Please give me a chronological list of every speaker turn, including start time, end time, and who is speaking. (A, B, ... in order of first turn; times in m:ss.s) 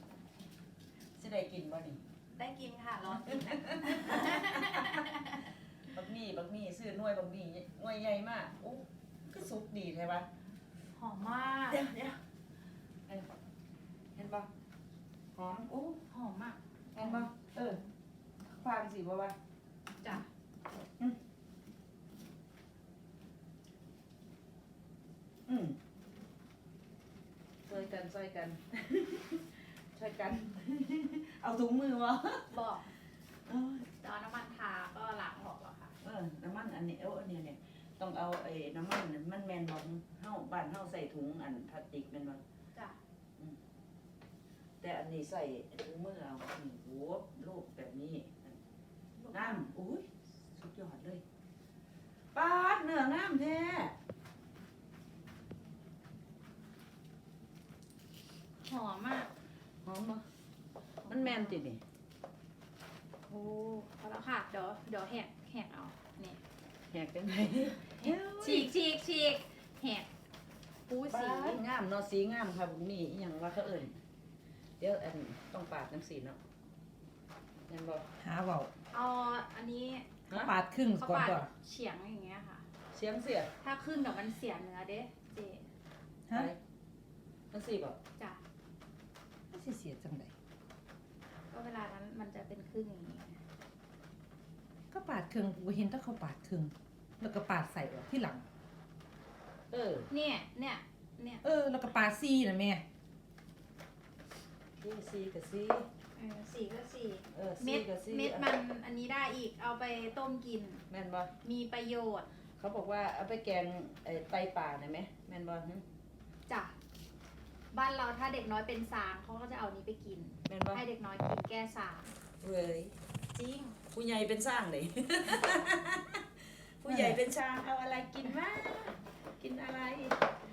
0:01.2-0:02.0 A
0:02.4-0:05.4 B
0:03.2-0:05.1 A
0:05.9-0:10.3 A
0:11.0-0:11.8 B
0:11.7-0:12.2 A
0:14.1-0:14.5 A
0:15.3-0:16.0 A
0:16.1-0:17.3 B
0:16.9-0:17.8 A
0:18.5-0:19.3 A
0:25.5-0:25.8 A
0:27.7-0:32.6 A
0:32.5-0:32.9 B
0:33.5-0:33.9 A
0:34.0-0:35.9 B
0:36.0-0:42.4 A
0:44.8-0:48.6 A
0:49.2-0:49.6 B
0:49.3-0:51.2 A
0:52.3-0:53.9 A
0:58.6-0:59.3 B
0:59.8-1:00.2 A
1:01.0-1:01.6 B
1:01.0-1:01.8 A
1:03.3-1:06.4 B
1:06.9-1:08.7 A
1:08.0-1:10.1 B
1:10.9-1:11.6 B
1:11.1-1:14.0 A
1:14.8-1:16.4 A
1:17.7-1:18.0 A
1:18.2-1:18.7 C
1:18.9-1:20.1 B
1:20.3-1:20.5 A
1:20.3-1:21.5 C
1:20.9-1:22.6 B
1:22.9-1:23.5 A
1:23.6-1:25.7 B
1:26.3-1:26.6 A
1:27.5-1:28.0 A
1:29.5-1:30.3 C
1:31.5-1:33.4 B
1:34.9-1:38.4 C
1:39.7-1:40.1 A
1:40.1-1:41.4 B
1:41.4-1:42.8 C
1:44.8-1:45.9 A
1:46.2-1:50.8 B
1:47.3-1:48.5 A
1:50.9-1:51.3 A
1:51.4-1:52.3 B
1:52.6-1:55.8 A
1:56.5-1:56.7 B
1:57.7-2:02.2 B
2:00.5-2:00.8 A
2:02.4-2:02.9 A
2:03.3-2:03.8 B
2:03.9-2:10.2 A
2:06.8-2:07.2 C